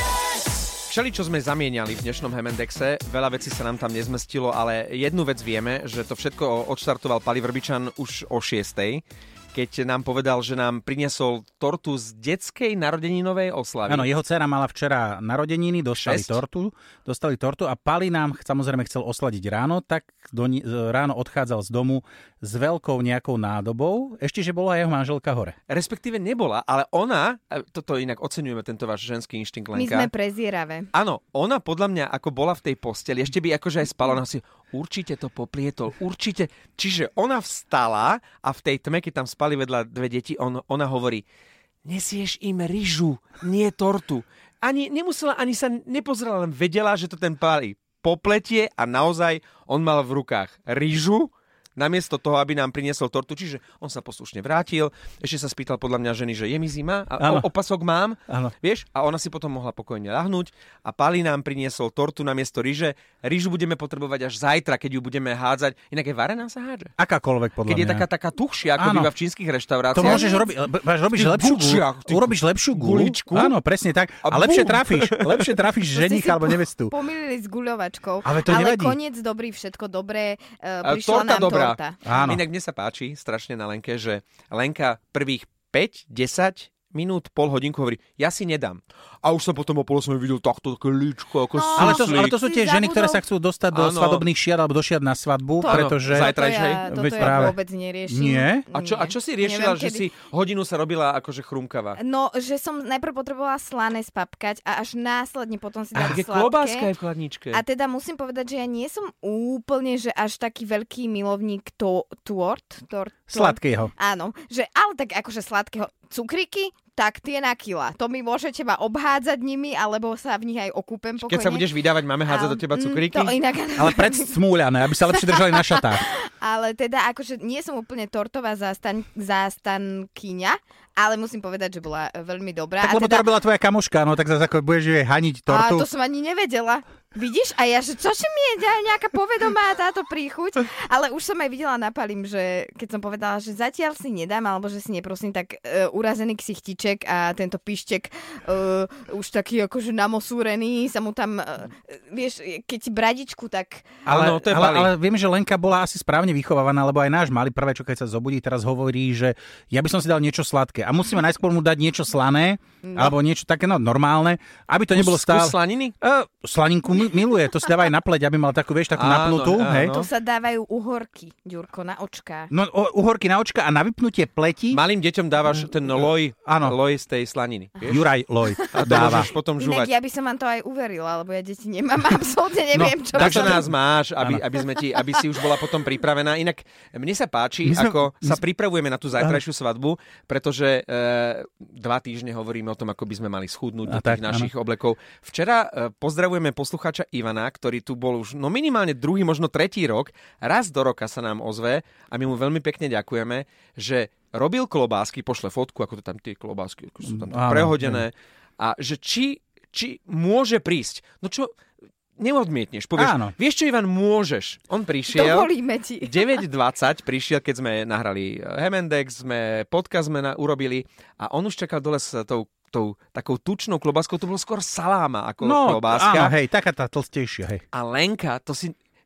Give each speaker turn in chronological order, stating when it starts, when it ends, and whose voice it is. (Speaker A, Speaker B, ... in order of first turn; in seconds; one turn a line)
Speaker A: 0.9-9.0
Speaker A: 9.5-14.1
Speaker B: 13.9-25.5
Speaker A: 16.0-16.4
Speaker A: 25.7-30.1
Speaker C: 29.7-30.9
Speaker A: 30.9-41.2
Speaker A: 41.8-66.9
Speaker B: 57.2-57.5
Speaker B: 67.0-68.0
Speaker A: 67.7-70.3
Speaker B: 68.8-69.1
Speaker B: 69.9-76.9
Speaker C: 70.0-70.5
Speaker A: 71.1-73.6
Speaker A: 74.2-75.5
Speaker C: 75.9-82.0
Speaker B: 78.2-79.0
Speaker A: 80.8-92.3
Speaker B: 82.0-82.4
Speaker C: 91.5-93.2
Speaker B: 91.8-97.5
Speaker A: 93.7-94.2
Speaker C: 95.6-100.1
Speaker A: 95.7-97.5
Speaker B: 98.1-98.6
Speaker A: 98.7-102.0
Speaker C: 102.0-106.9
Speaker B: 106.0-106.2
Speaker A: 106.0-107.6
Speaker C: 107.5-121.7
Speaker B: 113.3-113.9
Speaker A: 121.2-123.4
Speaker C: 122.2-124.4
Speaker B: 123.8-126.0
Speaker C: 124.9-133.3
Speaker B: 132.8-135.9
Speaker C: 135.5-153.9
Speaker B: 154.1-169.9
Speaker A: 154.1-154.9
Speaker C: 162.8-163.2
Speaker A: 164.9-165.9
Speaker A: 168.9-170.1
Speaker C: 169.9-172.5
Speaker B: 172.5-174.8
Speaker A: 174.7-178.1
Speaker B: 176.0-176.8
Speaker B: 177.9-179.3
Speaker C: 178.5-183.6
Speaker A: 178.7-179.9
Speaker B: 182.7-184.4
Speaker A: 183.1-211.5
Speaker B: 187.7-188.4
Speaker B: 193.9-194.5
Speaker B: 207.1-208.1
Speaker A: 212.2-226.3
Speaker B: 213.0-213.3
Speaker C: 215.1-216.2
Speaker B: 225.4-227.6
Speaker A: 227.7-228.8